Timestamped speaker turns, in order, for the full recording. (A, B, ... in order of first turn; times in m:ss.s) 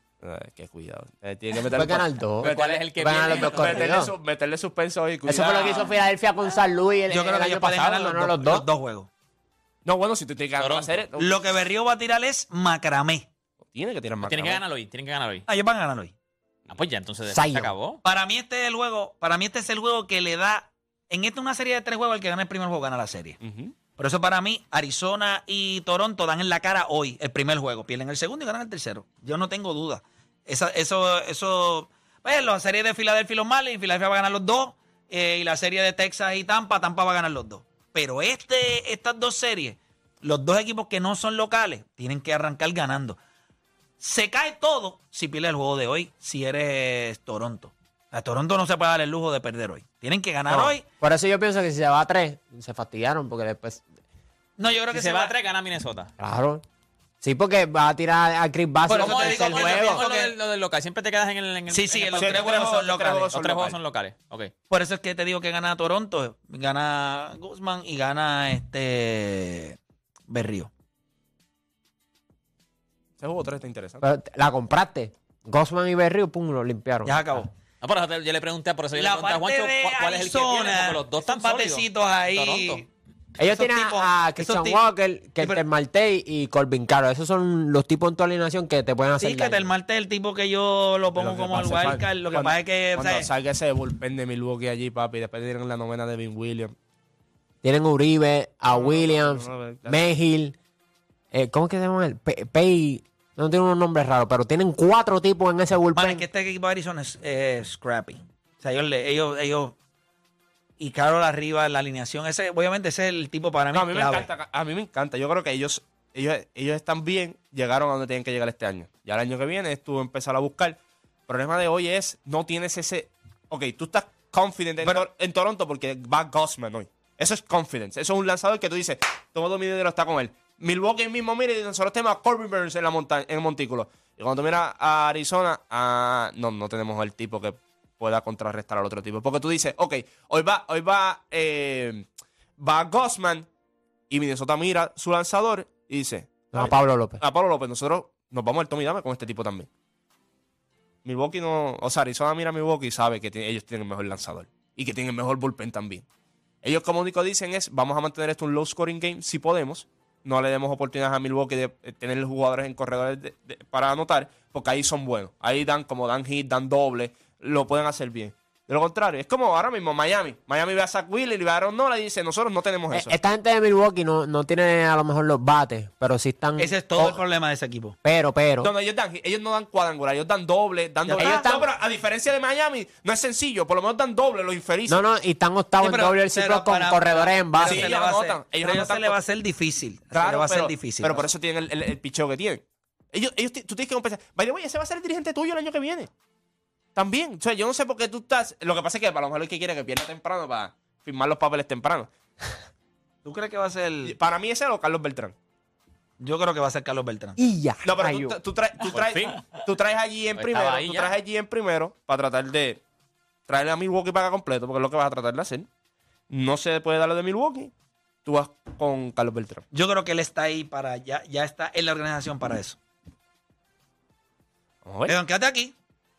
0:00.2-0:05.9 A
0:01.7-0:04.1 B
0:02.4-0:03.9 C
0:05.2-0:08.7 B
0:07.1-0:09.1 D
0:09.8-0:11.4 A
0:10.6-0:11.0 C
0:11.2-0:13.3 D
0:13.7-0:14.6 A
0:14.2-0:15.5 C
0:15.5-0:16.1 D
0:16.7-0:18.0 C
0:17.3-0:17.7 B
0:18.0-0:23.4 D
0:23.4-0:23.8 A
0:24.0-0:43.2 D
0:44.0-0:50.8 D
0:50.5-0:53.8 B
0:54.6-0:55.3 D
0:54.9-0:56.1 C
0:56.2-0:56.6 B
0:57.2-1:00.0 B
0:58.9-1:00.3 D
0:58.9-1:02.8 C
1:01.7-1:03.3 D
1:02.2-1:03.8 A
1:03.3-1:04.5 C
1:04.7-1:10.7 D
1:13.2-1:14.0 A
1:14.0-1:17.3 B
1:17.0-1:17.5 D
1:17.8-1:22.8 C
1:19.0-1:22.9 D
1:23.4-1:24.8 D
1:23.4-1:29.7 B
1:25.4-1:25.6 D
1:29.2-1:33.3 D
1:31.2-1:36.8 A
1:37.6-1:40.6 B
1:38.7-1:40.0 A
1:41.3-1:46.2 B
1:45.9-1:49.8 D
1:50.8-1:54.3 D
1:53.7-2:23.5 A
2:24.1-2:29.7 A
2:26.5-2:27.2 B
2:31.0-2:36.0 A
2:36.6-2:53.1 A
2:52.9-2:57.2 B
2:56.6-2:58.0 D
2:58.0-2:58.7 B
2:58.6-3:05.0 A
3:01.1-3:01.4 D
3:01.1-3:01.7 B
3:04.9-3:07.9 B
3:05.8-3:11.3 D
3:07.6-3:09.2 A
3:10.1-3:16.1 A
3:17.0-3:22.1 A
3:23.2-3:24.1 D
3:24.0-3:25.4 A
3:26.2-3:27.4 D
3:27.4-3:28.4 B
3:27.8-3:32.8 A
3:28.9-3:29.5 C
3:30.4-3:31.2 C
3:33.5-3:35.7 A
3:36.3-3:37.7 A
3:38.2-3:39.6 A
3:39.7-3:42.8 D
3:44.8-3:45.2 A
3:45.1-3:45.8 D